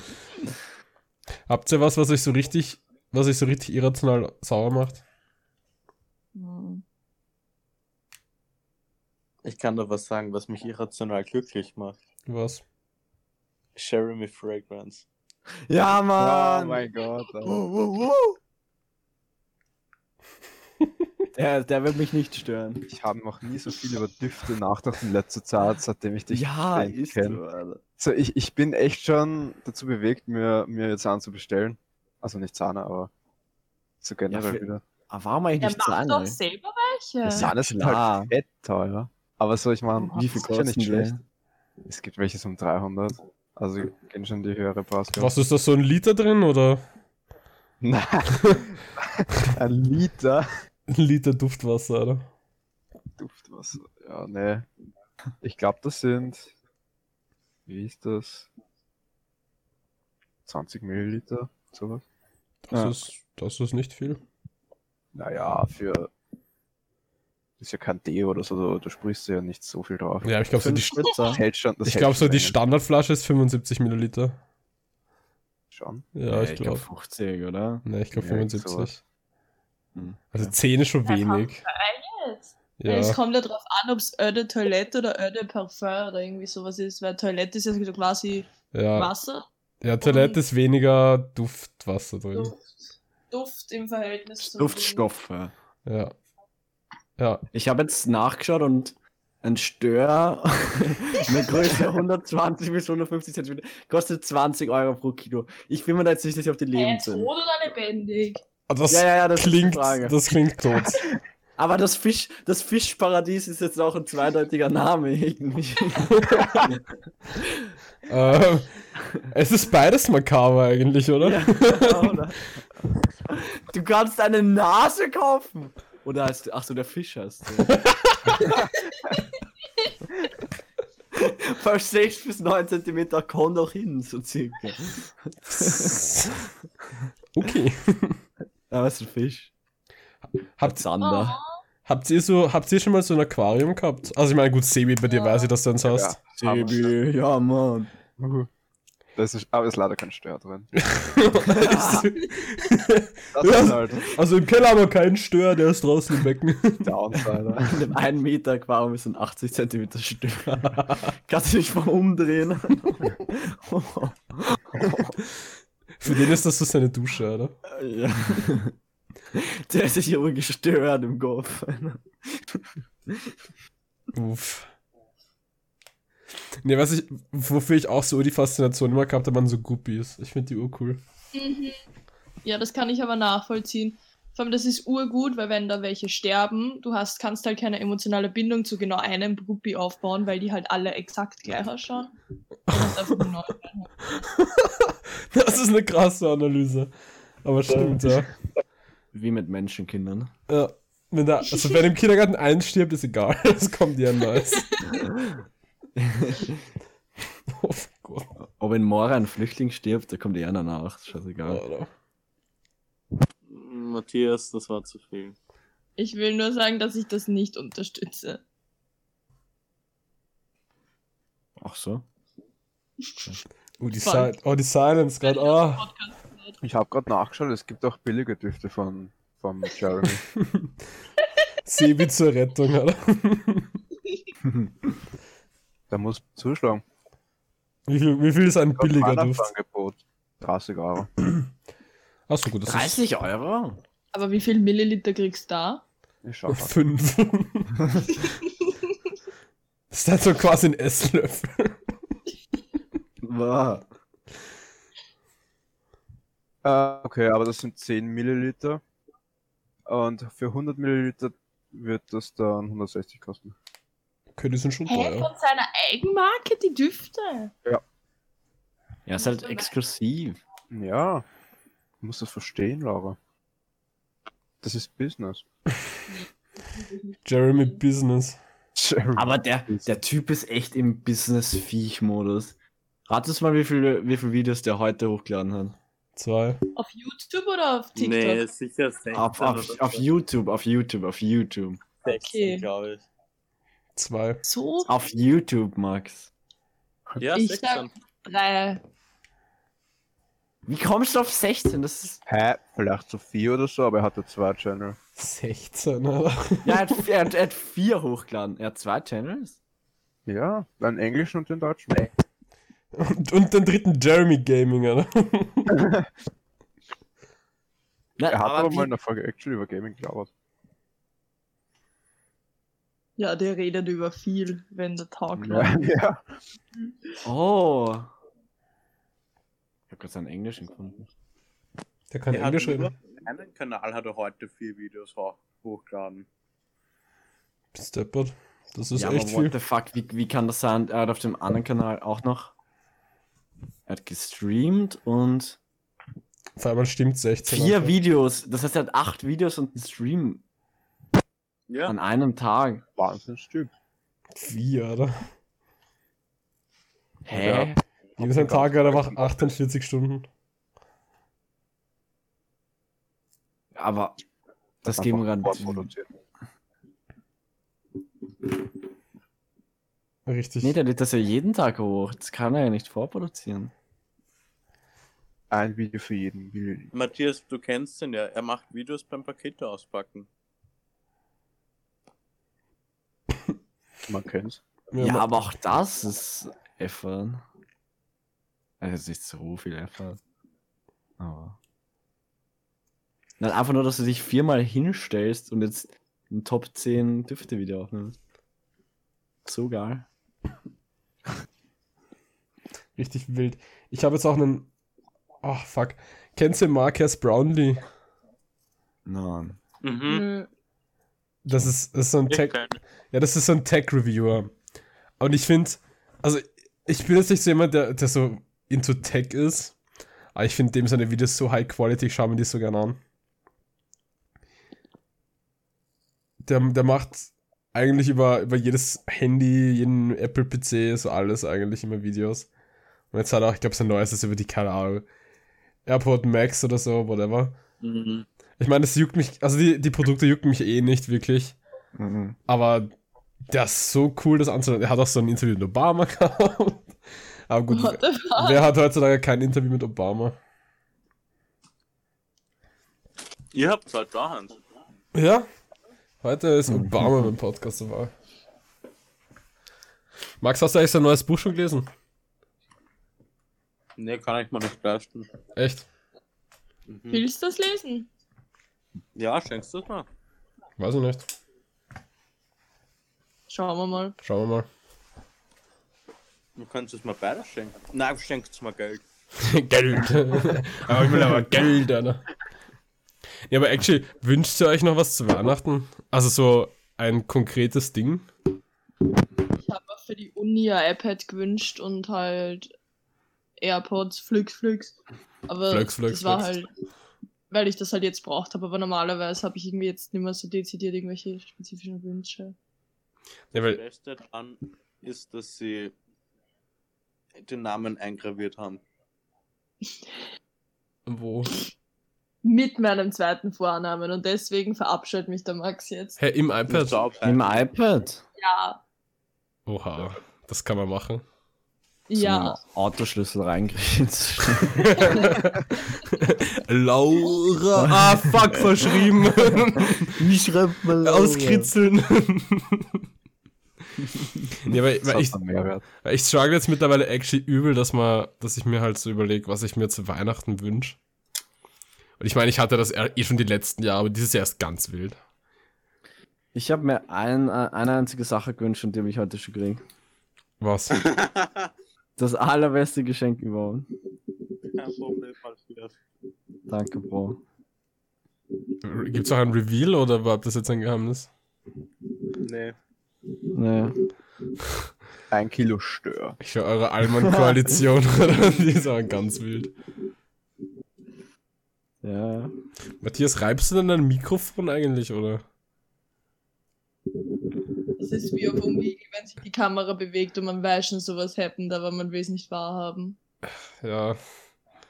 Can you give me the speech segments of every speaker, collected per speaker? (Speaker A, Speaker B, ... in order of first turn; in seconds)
Speaker A: 1.5-5.0, 12.3-12.6, 45.1-46.8, 48.4-48.7, 50.9-52.3, 62.7-64.2, 70.2-74.4, 76.1-76.8, 77.8-79.0, 80.3-81.6, 82.8-83.2, 88.7-89.1, 89.8-92.5, 95.8-96.1, 97.2-97.4, 108.7-111.1, 116.2-116.7, 118.0-122.1, 127.7-128.4, 135.5-136.4, 137.3-138.2, 140.6-140.9, 141.8-146.2, 150.8-156.9, 160.6-161.1, 166.0-167.5, 174.1-174.7, 176.6-181.0, 192.7-193.3, 194.1-196.9, 197.4-198.3, 200.5-204.7, 207.5-208.3, 211.4-211.9, 223.8-225.8, 230.3-230.7, 231.6-233.8, 237.9-239.5, 242.3-243.0, 246.5-247.7, 249.9-251.8, 264.4-265.3, 277.2-278.4, 286.1-286.6, 293.9-294.4, 305.1-307.0, 312.9-315.8, 332.1-332.9, 337.7-339.5, 346.6-347.9, 354.4-355.3, 358.2-360.3, 370.2-370.8, 384.9-385.3, 402.9-404.7, 405.4-407.8, 411.4-412.6, 413.1-414.5, 415.2-419.8, 420.3-423.0, 426.4-432.5, 433.1-435.1, 435.9-437.6, 438.6-441.6, 442.5-442.9, 443.5-446.9, 447.5-450.4, 455.1-455.5, 456.2-458.1, 460.4-461.9, 465.6-465.9, 470.8-471.2, 474.2-474.7, 479.4-482.2, 483.5-488.3, 495.7-496.6, 503.5-503.8, 511.1-511.6, 516.2-517.0, 519.7-521.2, 524.8-530.2, 531.0-532.9, 534.6-535.4, 535.9-541.0, 542.2-545.2, 550.6-551.1, 558.8-561.3, 566.4-569.7, 573.0-575.4, 583.8-584.2
Speaker B: 6.3-6.8, 35.6-37.5, 81.0-89.5, 90.0-90.4, 92.3-92.7, 93.3-95.0, 106.7-108.4, 141.0-141.5, 145.1-145.5, 181.3-181.8, 182.4-192.1, 192.7-193.9, 204.5-204.9, 216.0-218.4, 224.0-224.3, 225.2-226.6, 244.1-245.8, 264.9-267.5, 269.2-269.7, 276.1-277.7, 286.8-288.4, 292.1-292.7, 294.4-294.9, 297.3-298.8, 323.2-325.9, 410.1-410.5, 447.7-448.6, 467.1-468.1, 473.5-474.1, 489.6-492.7, 493.6-495.0, 495.5-496.7, 497.5-502.5, 512.4-516.2, 518.4-518.8, 522.1-522.6, 525.0-525.3, 578.0-583.2
Speaker C: 9.4-12.0, 13.7-15.0, 213.5-215.3, 287.9-290.0, 292.0-293.0, 297.2-297.9, 332.3-336.2, 351.7-351.9, 376.9-380.3, 409.8-410.2, 412.3-412.8, 437.8-438.2, 453.5-454.6, 464.0-465.3, 466.9-467.2, 469.1-470.1, 476.6-479.0, 503.5-505.9, 507.4-508.8, 516.7-517.7, 551.0-551.7, 554.7-556.0, 562.4-562.7
Speaker D: 15.7-16.9, 17.4-18.4, 21.4-22.9, 26.3-27.8, 34.3-36.4, 37.2-38.3, 40.1-41.2, 62.7-63.0, 70.6-71.4, 76.3-77.8, 79.9-80.5, 94.4-95.5, 97.5-107.3, 108.9-110.2, 111.6-116.8, 117.3-117.7, 121.2-122.5, 123.3-127.8, 131.1-136.0, 138.7-139.5, 140.6-141.4, 146.4-147.9, 151.5-152.1, 157.6-165.1, 167.7-168.7, 169.3-173.3, 199.1-200.3, 204.9-205.4, 206.0-206.6, 208.6-211.6, 221.6-222.0, 234.4-234.7, 242.7-243.8, 253.2-253.8, 269.1-270.4, 279.1-282.6, 283.1-285.8, 289.1-291.8, 294.9-296.3, 300.6-302.2, 306.6-309.6, 318.2-318.9, 327.2-328.1, 329.9-331.1, 338.9-342.5, 343.9-345.6, 347.5-350.4, 351.9-352.8, 357.2-357.8, 363.7-364.2, 364.8-365.9, 370.6-373.7, 385.0-387.4, 388.8-390.2, 391.2-391.6, 393.4-398.1, 399.4-400.1, 409.1-409.6, 441.9-442.4, 456.7-457.3, 517.2-518.2, 522.1-525.0, 527.8-528.9, 529.5-531.7, 546.5-549.8, 552.2-553.9, 556.7-557.4, 563.5-563.9, 567.2-567.7, 572.0-572.5
Speaker E: 16.2-17.6, 22.9-27.4, 28.0-33.1, 34.0-34.8, 37.2-41.1, 41.9-45.3, 47.8-50.5, 53.2-54.7, 55.4-56.5, 57.7-58.5, 60.5-62.0, 65.1-66.1, 67.6-70.3, 71.3-72.6, 75.7-76.0, 78.1-79.0, 145.8-146.9, 148.2-148.5, 149.2-150.7, 153.3-154.1, 156.8-157.8, 226.6-230.2, 235.9-236.8, 238.8-241.1, 246.2-246.8, 256.6-258.8, 259.9-263.5, 270.7-271.2, 272.0-273.2, 274.6-275.4, 278.8-279.9, 302.2-305.0, 310.2-312.1, 318.2-320.3, 325.4-326.2, 352.9-353.7, 357.3-359.5, 364.9-366.1, 375.5-376.9, 384.1-384.6, 535.0-535.8, 565.3-566.4